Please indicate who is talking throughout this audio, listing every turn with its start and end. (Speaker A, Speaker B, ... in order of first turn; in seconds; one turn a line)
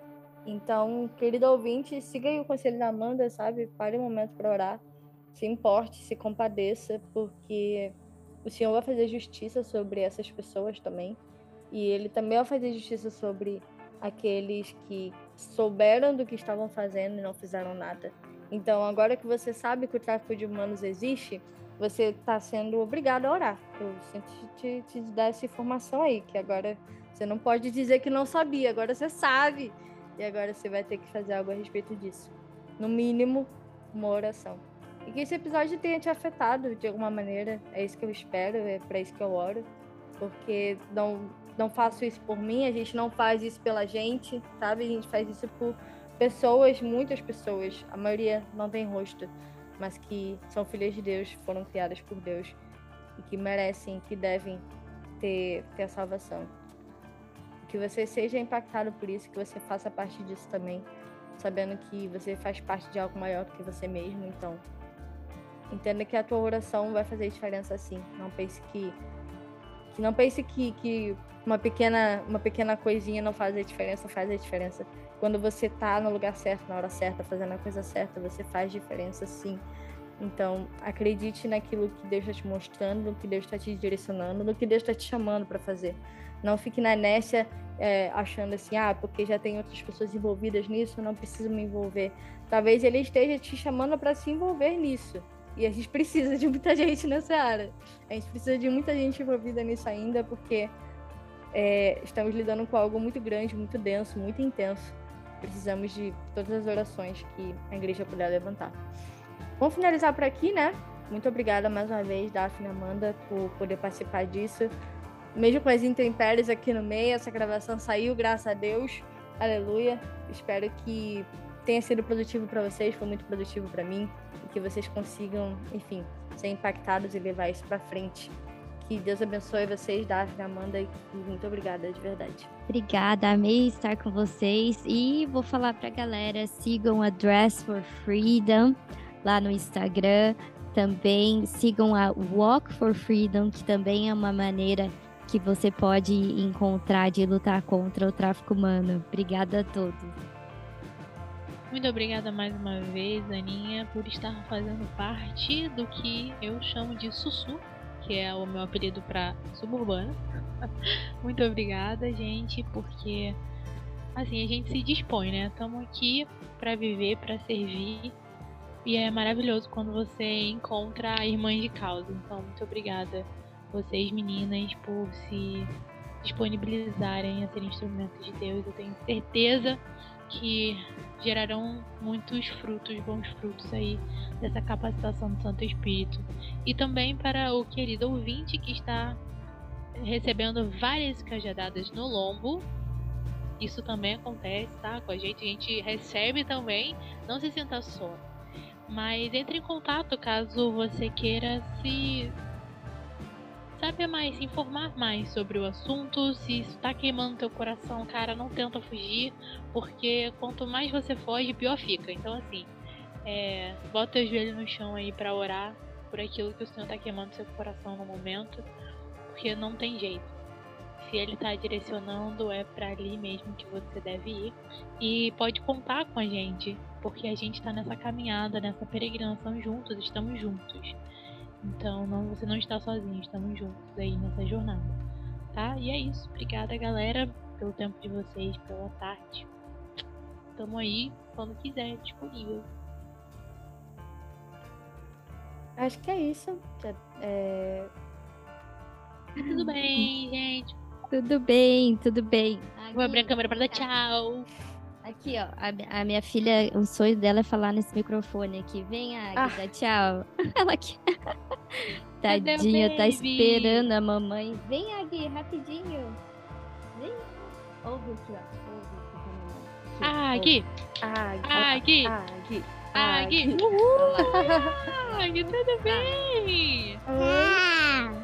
Speaker A: 0.4-4.8
Speaker A: 5.3-11.2
Speaker A: 11.7-39.7
Speaker A: 40.2-52.6
Speaker A: 53.2-54.6
Speaker A: 55.2-56.5
Speaker A: 57.6-64.6
Speaker A: 65.7-69.0
Speaker A: 69.9-79.6
Speaker A: 80.2-100.7
Speaker A: 101.5-108.8
Speaker A: 109.6-114.7
Speaker A: 115.3-132.5
Speaker B: 132.7-150.1
Speaker C: 151.7-160.7
Speaker C: 161.2-163.4
Speaker C: 164.1-168.1
Speaker C: 168.8-189.2
Speaker C: 190.0-192.7
Speaker C: 193.6-198.2
Speaker C: 198.9-202.3
Speaker C: 203.8-212.7
Speaker C: 213.2-218.7
Speaker C: 219.3-220.3
Speaker C: 221.0-231.0
Speaker C: 231.6-235.0
Speaker C: 235.5-239.5
Speaker C: 240.6-242.7
Speaker A: 245.8-247.9
Speaker C: 249.4-250.8
Speaker B: 249.4-250.1
Speaker B: 251.1-253.9
Speaker C: 252.9-254.5
Speaker B: 255.0-261.0
Speaker A: 259.4-259.6
Speaker B: 262.2-266.2
Speaker C: 262.3-263.9
Speaker B: 266.9-270.6
Speaker C: 270.0-270.7
Speaker A: 271.0-274.8
Speaker C: 271.4-272.1
Speaker C: 272.9-277.0
Speaker B: 273.9-274.4
Speaker B: 275.8-276.1
Speaker A: 277.1-277.6
Speaker B: 277.1-278.1